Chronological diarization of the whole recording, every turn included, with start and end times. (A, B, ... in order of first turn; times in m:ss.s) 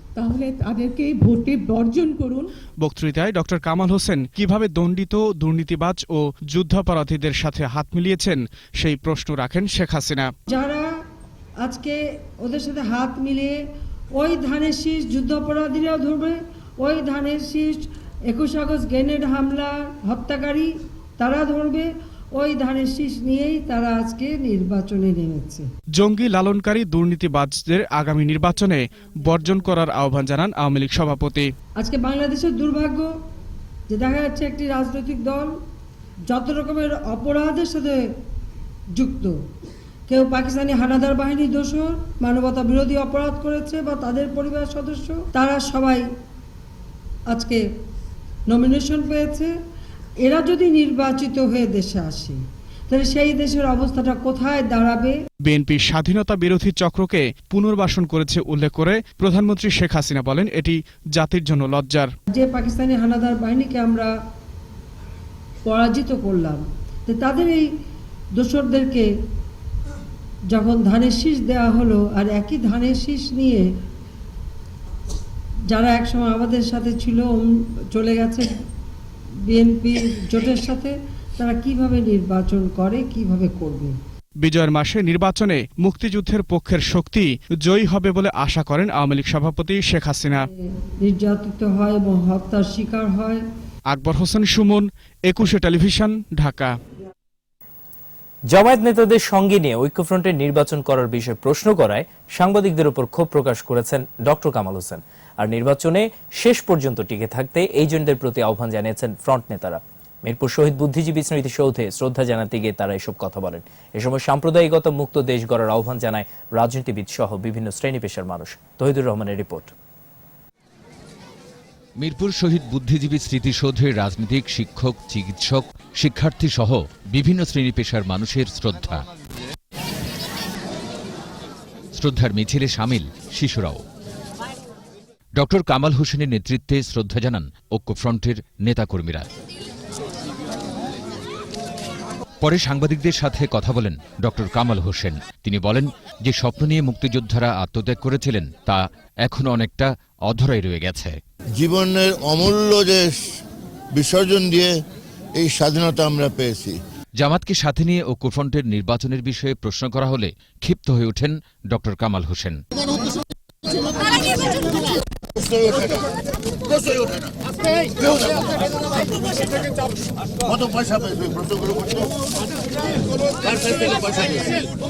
0:00.2-0:02.5 A
0:02.8-0:10.3 B
0:10.5-0:10.9 C
0:11.6-0:13.6 C
0:14.2-0:25.7 C
0:26.0-0:31.5 B
0:31.8-0:33.1 C
0:33.9-0:35.6 C
0:36.3-0:38.1 C
0:38.9-0:39.4 C
0:40.1-0:46.1 C
0:47.3-0:47.6 C
0:48.5-0:49.5 C
0:50.2-0:55.2 C
0:55.4-1:02.1 B
1:02.3-1:04.1 C
1:05.6-1:07.7 C
1:08.4-1:09.1 C
1:10.5-1:13.7 C
1:15.7-1:18.6 C
1:19.4-1:24.0 C
1:24.4-1:30.5 B
1:30.5-1:33.4 C
1:33.9-1:36.8 B
1:38.5-1:59.7 D
2:02.0-2:09.0 E
2:12.0-2:13.8 E
2:15.4-2:19.3 E
2:22.4-2:31.2 E
2:31.6-2:33.2 F
2:34.0-2:34.7 F
2:35.4-2:36.8 F
2:37.2-2:42.6 E
2:45.3-2:46.1 F
2:46.7-2:49.5 F
2:50.4-2:52.1 F
2:53.4-2:54.6 F